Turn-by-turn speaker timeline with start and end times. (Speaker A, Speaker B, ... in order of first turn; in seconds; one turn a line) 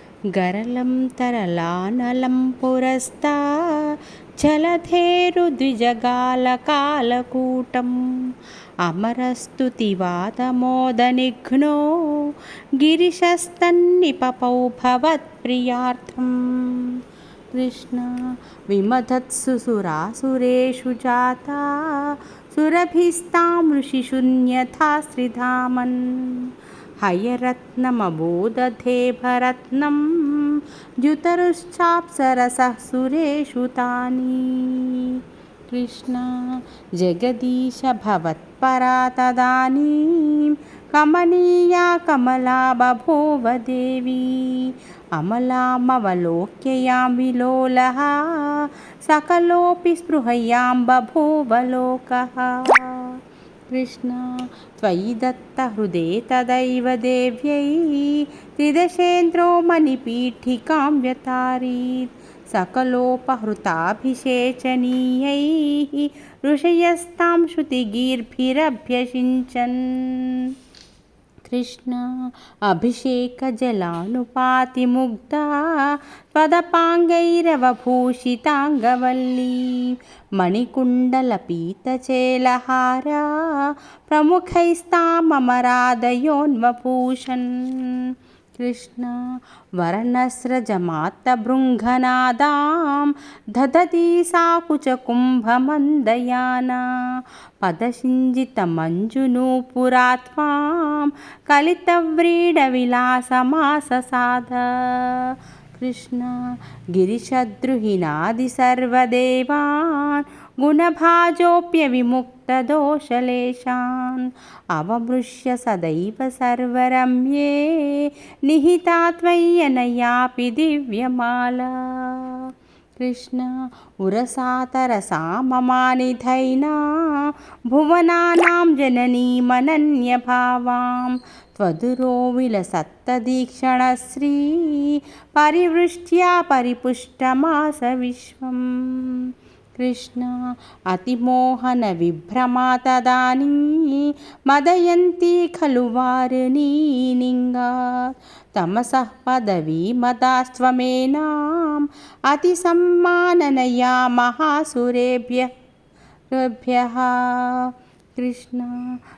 Speaker A: 0.3-8.0
Speaker A: 8.8-16.9
Speaker A: 17.5-18.1
Speaker A: 18.7-26.5
Speaker A: 27.0-35.2
Speaker A: 35.7-53.1
Speaker A: 53.7-54.3
Speaker A: 54.8-70.4
Speaker A: 71.5-72.0
Speaker A: 72.7-83.3
Speaker A: 84.1-88.1
Speaker A: 88.6-89.2
Speaker A: 89.8-96.8
Speaker A: 97.6-106.4
Speaker A: 106.9-122.5
Speaker A: 123.0-140.4
Speaker A: 140.9-155.5
Speaker A: 156.3-158.8